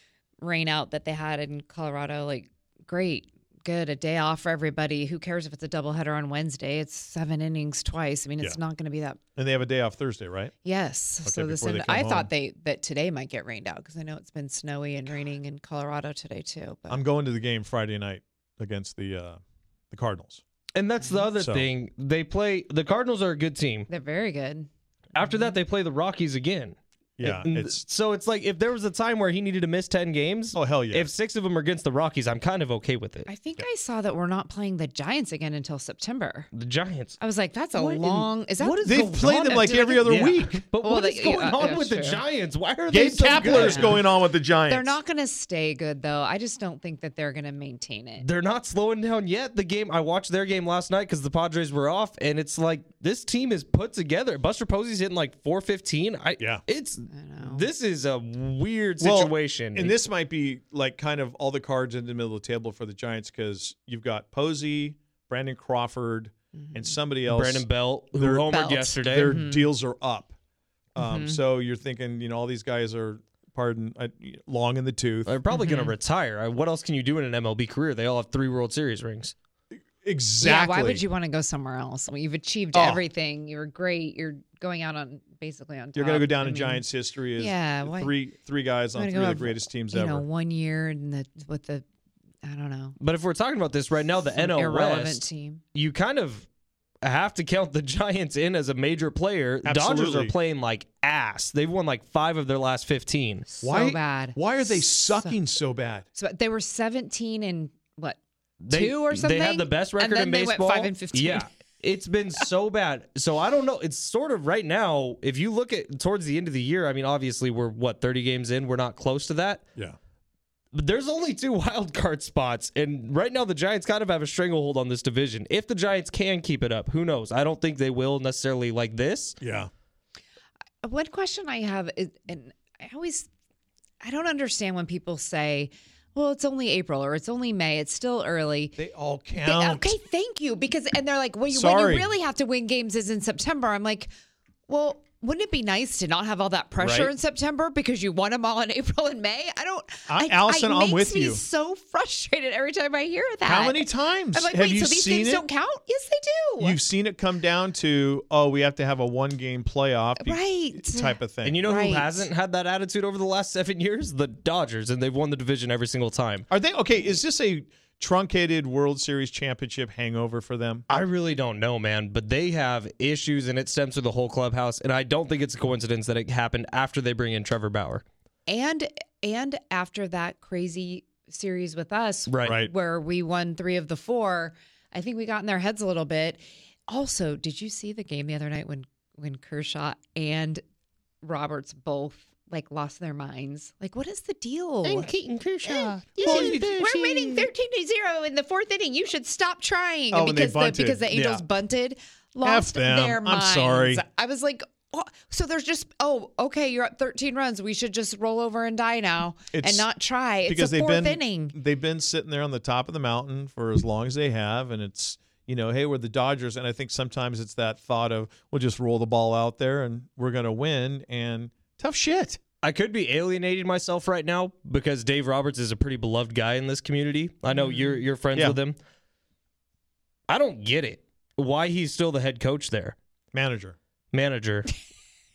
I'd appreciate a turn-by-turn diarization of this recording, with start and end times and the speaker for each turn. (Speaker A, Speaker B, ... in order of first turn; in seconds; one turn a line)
Speaker A: 0.4-9.2
Speaker B: 9.3-10.5
Speaker A: 10.6-17.0
Speaker B: 11.2-12.3
Speaker B: 16.9-19.4
Speaker B: 19.9-20.4
Speaker C: 20.8-23.9
Speaker B: 21.4-21.7
Speaker A: 23.9-24.7
Speaker C: 25.1-33.3
Speaker A: 25.2-25.5
Speaker B: 27.2-27.8
Speaker B: 30.5-31.1
Speaker A: 33.3-36.5
Speaker C: 36.5-37.2
Speaker A: 37.2-40.1
Speaker C: 37.8-44.0
Speaker B: 38.8-40.6
Speaker A: 40.8-42.2
Speaker B: 42.9-44.9
Speaker A: 43.4-44.0
Speaker A: 44.7-48.2
Speaker C: 48.2-60.0
Speaker A: 57.1-57.7
Speaker B: 59.0-70.3
Speaker A: 66.5-66.9
Speaker C: 67.3-69.4
Speaker A: 68.5-69.7
Speaker B: 70.9-75.3
Speaker A: 71.0-71.4
Speaker C: 75.2-79.3
Speaker A: 75.5-75.9
Speaker B: 80.0-81.0
Speaker A: 80.4-86.8
Speaker B: 82.7-83.0
Speaker B: 85.9-90.2
Speaker A: 87.4-88.1
Speaker A: 88.9-91.8
Speaker A: 92.4-93.0
Speaker C: 93.0-96.5
Speaker A: 94.3-95.6
Speaker C: 97.0-103.5
Speaker B: 99.6-100.3
Speaker A: 103.5-105.4
Speaker B: 103.6-106.0
Speaker A: 106.1-108.2
Speaker C: 108.6-119.6
Speaker A: 108.7-111.5
Speaker C: 120.7-129.4
Speaker B: 129.4-129.7
Speaker A: 130.8-133.3
Speaker A: 134.0-138.8
Speaker B: 138.8-140.0
Speaker A: 139.4-144.1
Speaker B: 141.5-142.1
Speaker A: 144.7-156.8
Speaker C: 146.8-147.1
Speaker B: 150.1-151.4
Speaker B: 153.4-155.4
Speaker B: 156.6-161.7
Speaker A: 160.2-162.3
Speaker C: 161.4-166.5
Speaker B: 166.5-170.8
Speaker C: 170.9-178.0
Speaker A: 178.5-190.6
Speaker C: 182.3-182.6
Speaker B: 182.4-182.7
Speaker A: 191.2-195.1
Speaker C: 194.8-197.5
Speaker A: 195.6-211.5
Speaker B: 196.2-196.8
Speaker B: 200.1-201.4
Speaker B: 202.4-204.0
Speaker B: 209.5-209.9
Speaker B: 210.4-222.4
Speaker C: 222.6-228.8
Speaker A: 227.5-228.0
Speaker C: 230.3-232.9
Speaker B: 233.3-233.8
Speaker C: 234.1-234.7